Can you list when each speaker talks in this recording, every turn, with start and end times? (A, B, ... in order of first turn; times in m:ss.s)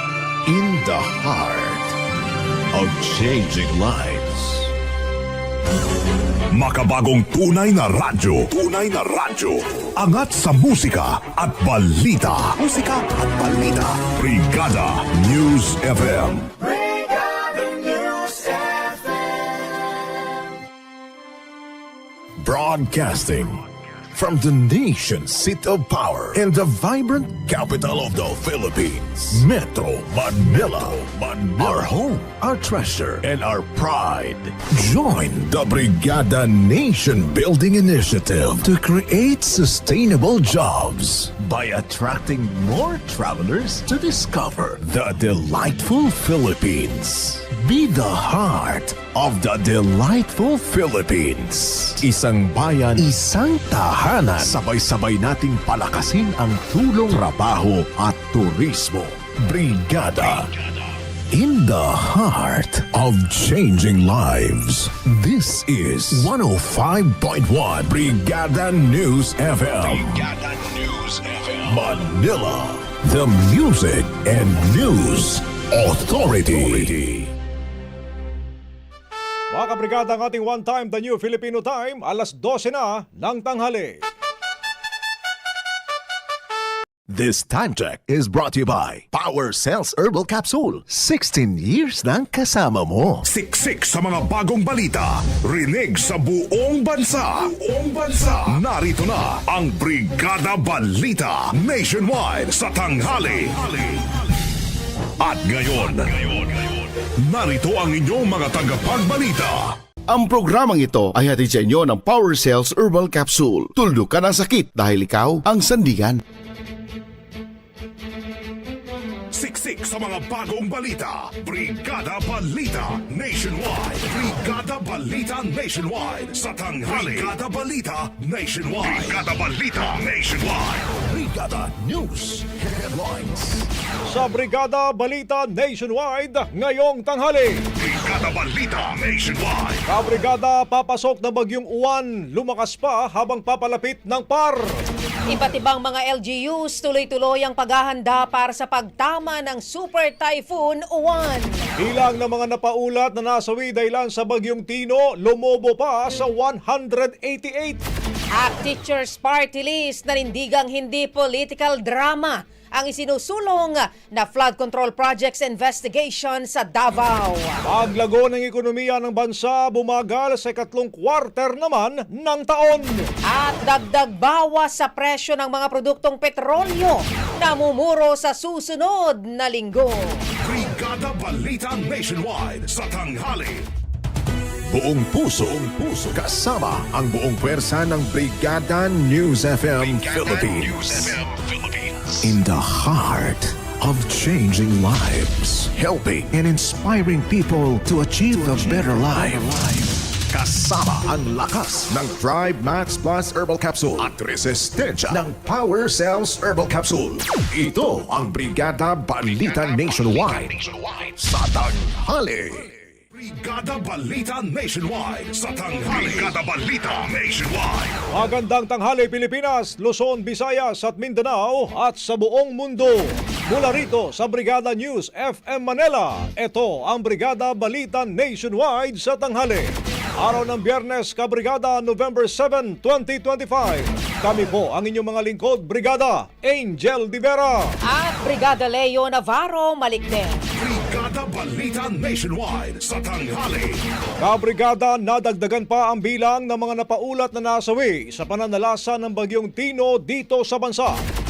0:00.5-0:02.0 A
0:02.7-0:04.7 A
0:06.5-0:16.5 B
0:22.4-0:23.6 A
0:24.1-1:00.5 A
1:01.3-1:10.1 A
1:11.6-1:17.0 A
1:19.5-1:24.0 C
1:27.1-1:33.2 A
1:33.2-1:44.0 B
1:45.2-1:49.7 B
1:50.1-1:56.2 D
1:59.3-2:10.9 B
2:06.9-2:07.3 C
2:11.1-2:13.7 A
2:14.1-2:17.7 C
2:17.8-2:19.8 B
2:19.9-2:24.8 C
2:25.3-2:31.7 E
2:31.8-2:37.8 C
2:38.3-2:47.6 E
2:47.7-2:53.1 C
2:53.3-3:00.2 E
3:00.4-3:03.7 B
3:04.7-3:11.2 A
3:12.2-3:30.6 A
3:31.2-3:32.7 A
3:33.1-3:38.0 B
3:38.1-3:57.7 C
3:57.9-4:00.4 E
4:00.5-4:03.8 B
4:04.2-4:11.0 C